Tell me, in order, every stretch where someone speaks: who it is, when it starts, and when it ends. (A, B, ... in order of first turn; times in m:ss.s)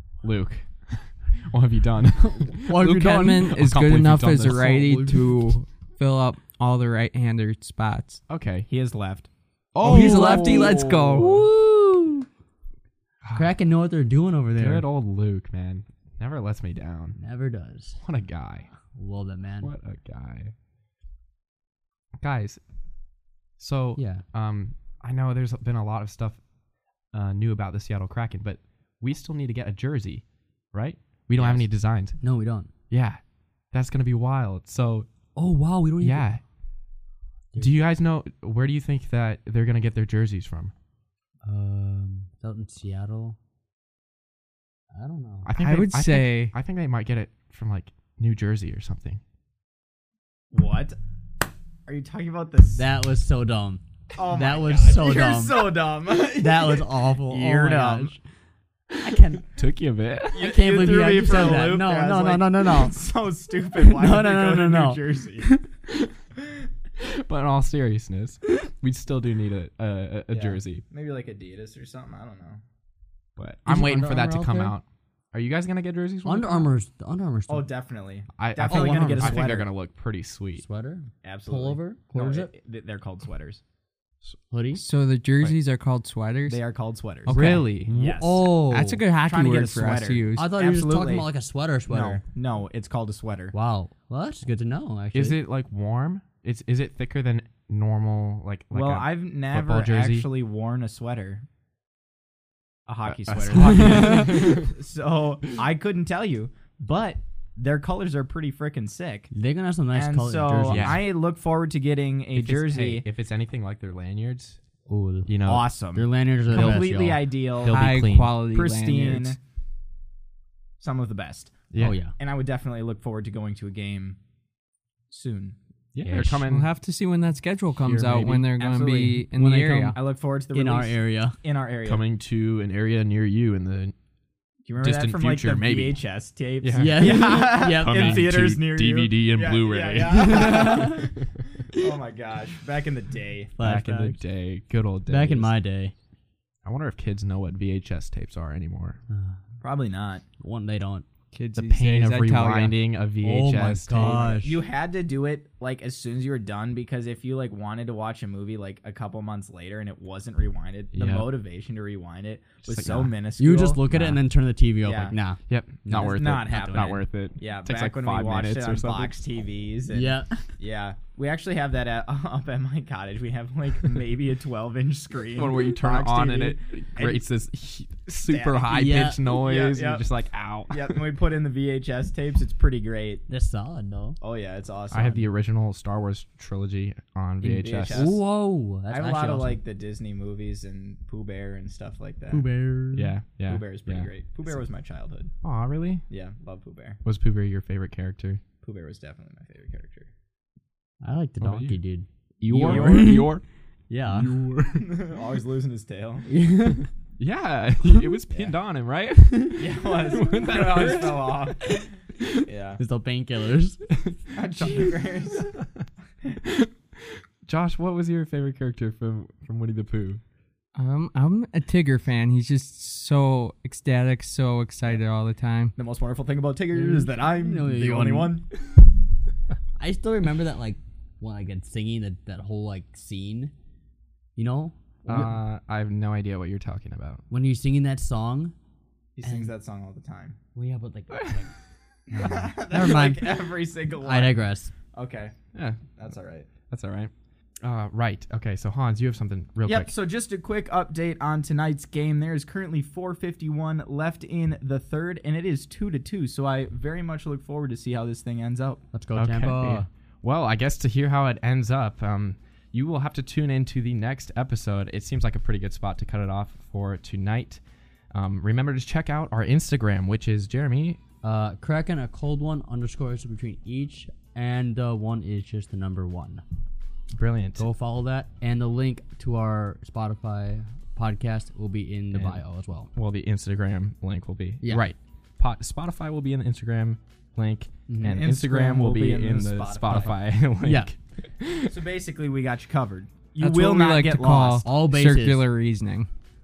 0:00.2-0:02.8 A
0:02.3-0:03.5 B
0:02.8-0:08.2 C
0:03.5-0:05.1 A
0:04.5-0:05.2 B
0:08.3-0:08.7 A
0:08.7-0:09.3 D
0:09.7-0:11.4 A
0:09.8-0:12.2 B
0:09.8-0:11.5 C
0:13.2-0:13.5 A
0:13.3-0:14.8 B
0:14.6-0:17.2 A
0:17.2-0:18.0 B
0:18.0-0:18.7 A
0:19.0-0:19.7 B
0:19.6-0:20.5 A
0:22.2-0:22.6 A
0:23.6-0:26.4 A
0:24.0-0:24.2 B
0:27.1-0:32.2 A
0:32.2-0:32.7 B
0:32.9-0:33.2 A
0:33.7-0:35.1 A
0:35.4-0:36.3 B
0:36.0-0:36.4 A
0:37.6-0:40.7 A
0:41.4-0:43.4 B
0:44.9-0:45.5 B
0:45.4-0:49.2 A
0:45.6-0:46.5 C
0:50.5-0:51.0 D
0:51.9-0:52.9 D
0:52.8-0:58.2 B
0:54.2-0:58.2 D
0:59.0-0:59.4 D
0:59.5-1:00.5 A
1:00.3-1:05.5 D
1:00.4-1:03.0 B
1:03.7-1:05.6 B
1:07.0-1:10.8 A
1:10.3-1:12.6 D
1:13.4-1:16.7 A
1:13.7-1:14.8 B
1:16.2-1:17.7 B
1:17.5-1:19.5 D
1:18.4-1:20.6 A
1:18.6-1:19.7 B
1:20.6-1:22.5 B
1:21.2-1:23.6 D
1:24.5-1:24.8 B
1:24.8-1:26.6 C
1:26.5-1:28.4 D
1:27.3-1:27.7 C
1:27.3-1:27.9 A
1:27.9-1:29.0 B
1:28.7-1:30.4 C
1:29.2-1:31.3 D
1:30.4-1:32.2 B
1:31.9-1:33.5 D
1:33.5-1:35.4 B
1:35.1-1:40.3 A
1:38.7-1:41.5 D
1:42.9-1:49.3 D
1:43.0-1:44.8 A
1:49.3-1:51.0 B
1:49.9-1:53.0 D
1:50.7-1:51.1 A
1:52.4-1:54.6 A
1:54.9-1:57.3 B
1:55.3-1:55.7 A
1:55.4-1:57.9 D
1:56.5-1:56.8 A
1:57.6-1:58.4 A
1:57.6-1:59.4 C
1:58.5-1:59.4 D
2:00.8-2:04.2 D
2:01.7-2:02.0 A
2:01.8-2:02.2 B
2:05.1-2:05.6 D
2:06.0-2:06.7 A
2:06.0-2:06.4 B
2:06.1-2:10.0 C
2:07.8-2:08.5 A
2:08.6-2:09.3 D
2:09.3-2:10.0 B
2:10.0-2:12.0 D
2:10.5-2:11.4 B
2:11.8-2:14.0 A
2:14.7-2:21.1 D
2:14.8-2:16.0 A
2:16.6-2:21.4 A
2:16.8-2:18.3 B
2:20.0-2:21.1 B
2:21.7-2:23.6 D
2:23.6-2:24.2 B
2:23.6-2:25.5 A
2:25.1-2:25.9 B
2:26.6-2:29.0 A
2:29.1-2:29.4 B
2:29.6-2:30.2 D
2:30.4-2:31.1 B
2:31.3-2:32.8 C
2:31.6-2:34.4 A
2:33.2-2:34.6 B
2:34.0-2:43.8 D
2:40.9-2:41.3 A
2:42.7-2:43.1 A
2:43.4-2:47.0 B
2:43.9-2:44.2 A
2:44.8-2:45.2 D
2:45.5-2:49.2 A
2:45.9-2:57.2 D
2:49.9-2:50.5 B
2:55.4-3:01.1 A
2:58.2-3:00.1 D
2:58.7-2:59.2 B
3:00.7-3:03.3 D
3:03.3-3:04.2 B
3:04.2-3:05.2 D
3:04.9-3:08.1 A
3:07.4-3:08.2 D
3:07.5-3:09.6 B
3:08.9-3:12.5 D
3:12.3-3:13.1 B
3:12.9-3:14.1 A
3:13.4-3:15.3 D
3:15.4-3:16.0 A
3:16.1-3:17.0 D
3:17.0-3:18.4 A
3:18.6-3:20.1 D
3:21.0-3:23.3 B
3:21.4-3:21.8 A
3:22.4-3:23.4 A
3:22.6-3:23.3 D
3:23.9-3:24.6 B
3:24.2-3:24.6 A
3:24.7-3:26.3 D
3:26.3-3:26.9 B
3:27.2-3:31.5 A
3:29.6-3:31.9 D
3:32.4-3:32.8 D
3:32.8-3:33.8 B
3:34.3-3:35.6 D
3:34.6-3:34.9 A
3:36.4-3:40.2 A
3:40.8-3:45.7 C
3:45.8-3:48.5 D
3:46.7-3:48.4 B
3:49.8-3:53.5 B
3:54.4-3:55.3 B
3:55.1-3:57.2 A
3:57.3-3:58.5 B
3:59.2-4:00.4 D
3:59.2-3:59.5 B
4:00.6-4:01.5 B
4:01.1-4:01.4 A
4:02.1-4:04.7 B
4:02.1-4:06.5 D
4:05.5-4:05.8 A
4:06.7-4:07.1 A
4:07.6-4:09.9 A
4:09.6-4:18.8 D
4:18.9-4:19.9 B
4:19.2-4:31.0 A
4:31.2-4:36.4 B
4:37.1-4:37.6 A
4:37.6-4:42.9 B
4:42.1-4:51.8 A
4:44.6-4:44.9 B
4:47.9-4:48.2 B
4:48.0-4:50.2 D
4:50.6-4:50.9 B
4:51.7-4:54.7 D
4:53.4-4:56.1 C
4:54.6-4:55.4 B